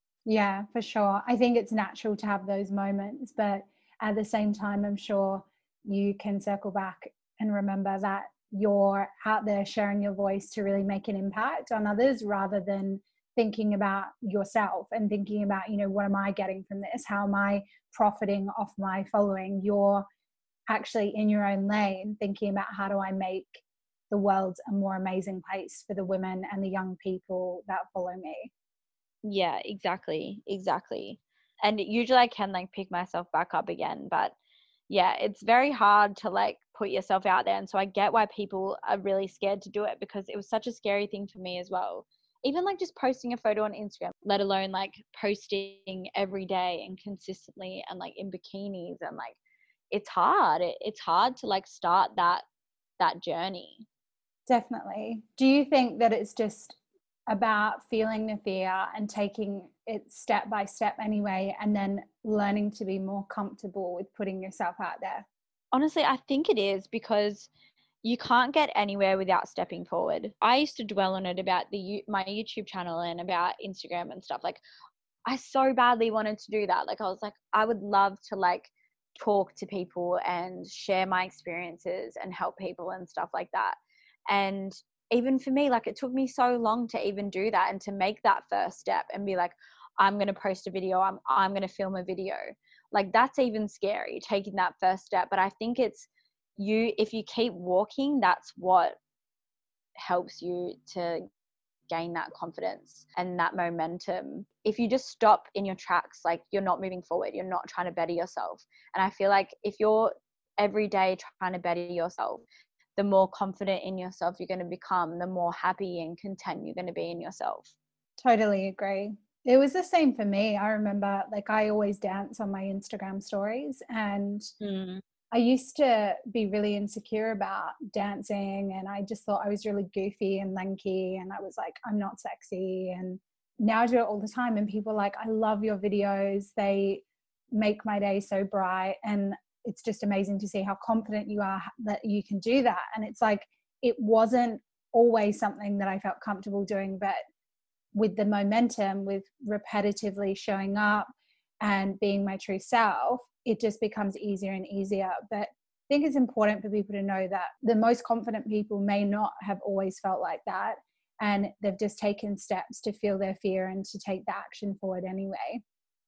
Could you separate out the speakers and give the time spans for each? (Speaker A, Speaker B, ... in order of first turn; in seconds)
Speaker A: 0.2-20.1, 20.7-28.5, 54.5-56.8, 57.3-65.3, 118.2-124.5, 125.3-147.2, 147.9-151.1, 151.6-165.6
Speaker B: 29.2-34.3, 34.9-49.4, 49.9-52.4, 53.0-53.9, 65.7-67.5, 68.0-74.6, 75.3-99.0, 100.0-101.2, 101.9-112.4, 113.0-117.7, 124.6-125.0